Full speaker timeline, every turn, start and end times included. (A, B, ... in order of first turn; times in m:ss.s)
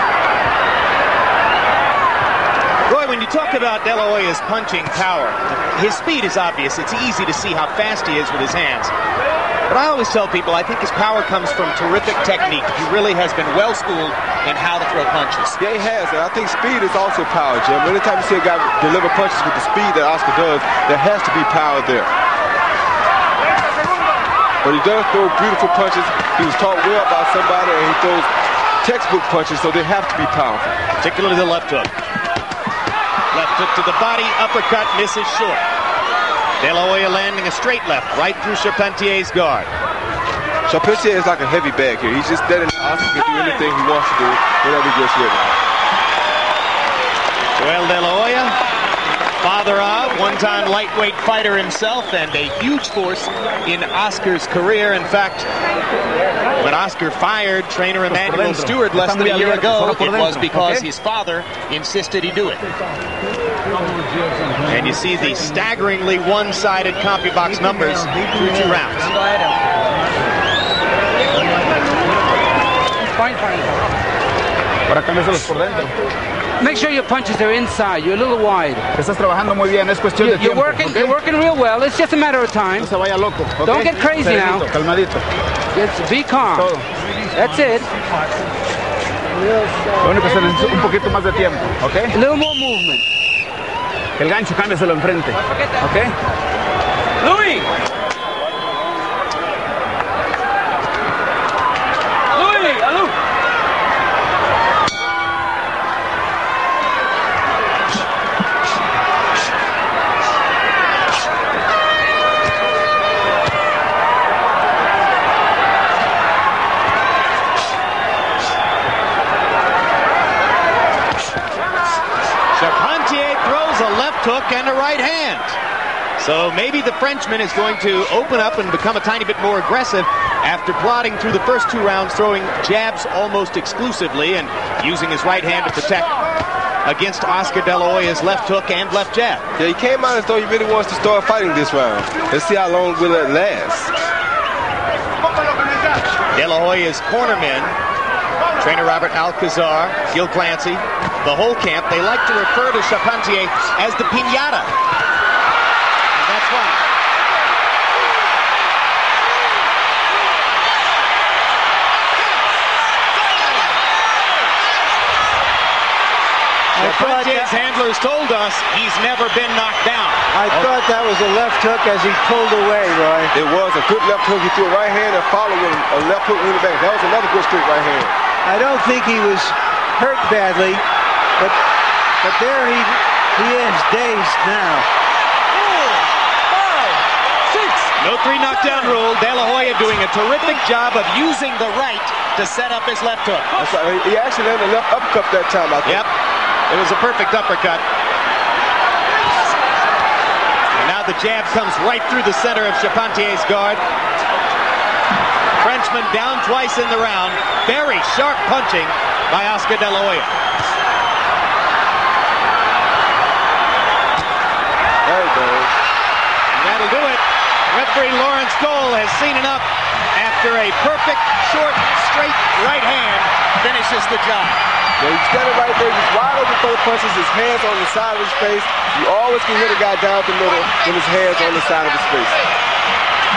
0:02.9-0:08.9 A
0:09.7-0:15.6 A
0:15.6-0:22.1 B
0:24.6-0:28.3 B
0:28.8-0:30.7 B
0:31.0-0:31.9 A
0:33.3-0:35.6 A
0:36.6-0:39.7 A
0:40.6-0:45.6 B
0:47.6-0:48.6 A
0:49.4-0:55.5 A
0:56.6-1:02.6 A
0:59.0-1:00.7 C
1:04.7-1:09.1 A
1:13.2-1:13.7 D
1:14.9-1:15.9 C
1:16.6-1:18.8 D
1:18.9-1:21.2 C
1:20.2-1:22.9 D
1:22.8-1:25.2 C
1:23.6-1:24.6 D
1:25.7-1:26.7 D
1:26.5-1:26.8 C
1:27.3-1:27.9 D
1:29.9-1:32.1 C
1:32.1-1:33.0 D
1:34.2-1:36.1 C
2:02.5-2:05.6 A
2:06.2-2:16.2 A
2:16.8-2:19.4 A
2:19.6-2:23.9 B
2:26.3-2:27.8 A
2:28.6-2:34.7 A
2:36.1-2:36.8 A
2:46.8-2:47.5 E
2:46.8-2:50.7 A
2:50.3-2:53.3 E
2:53.3-2:58.1 B
2:58.4-3:00.8 E
3:02.2-3:04.9 E
3:08.0-3:13.5 A
3:13.6-3:16.0 B
3:16.7-3:17.8 A
3:20.8-3:23.8 A
3:25.6-3:30.3 A
3:35.0-3:35.7 B
3:36.5-3:44.6 A
3:45.0-3:52.4 B